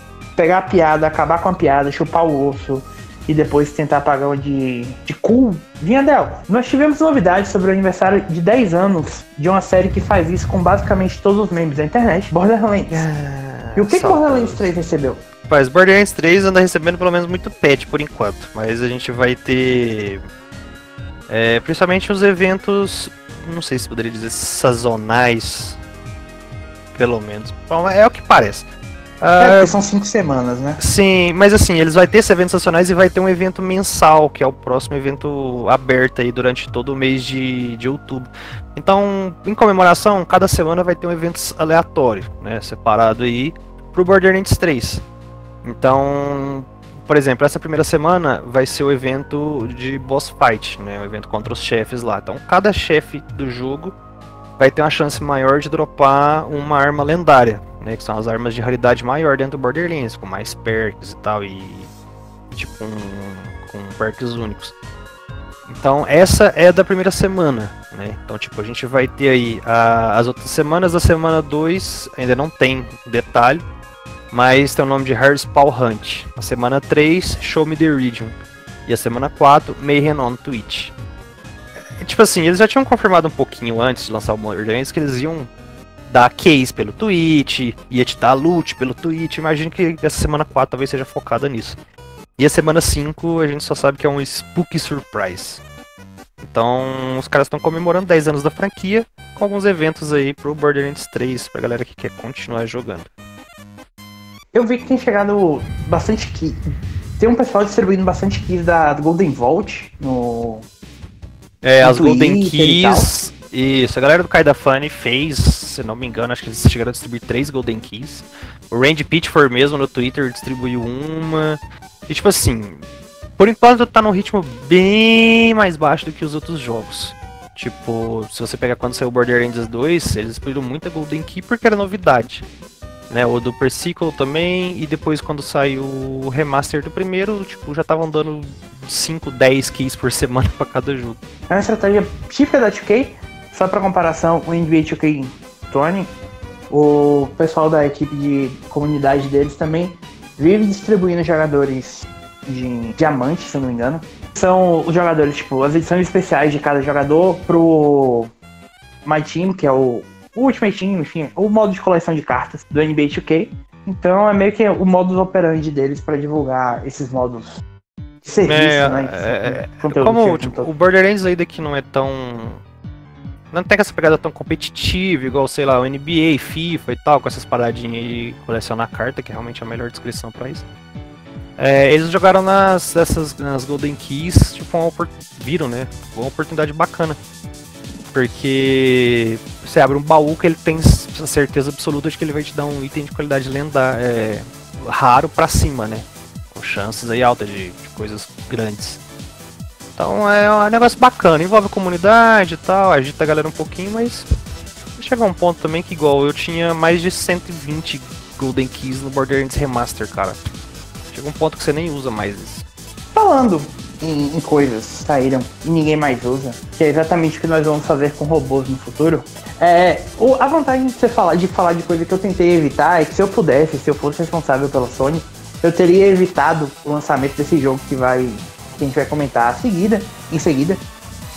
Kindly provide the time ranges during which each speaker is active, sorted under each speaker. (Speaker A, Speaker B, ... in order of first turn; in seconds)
Speaker A: 0.4-13.1, 13.8-15.2, 29.4-30.8, 104.5-106.6, 107.2-110.7, 111.8-113.1, 141.5-146.1, 146.7-158.3, 159.1-167.6, 168.2-170.7, 213.1-230.8
Speaker B: 12.9-14.7, 15.4-20.2, 21.3-25.8, 26.9-28.7, 29.2-29.8, 30.8-45.0, 45.6-54.0, 54.6-61.9, 62.5-64.7, 65.7-73.6, 74.3-78.3, 78.9-80.9, 82.0-85.5, 86.1-91.8, 92.4-95.6, 96.4-103.1, 111.6-122.8, 123.4-132.4, 133.1-141.2, 168.4-172.6, 173.5-180.7, 181.6-187.2, 188.1-199.0, 200.0-204.3, 205.0-210.4, 211.1-212.7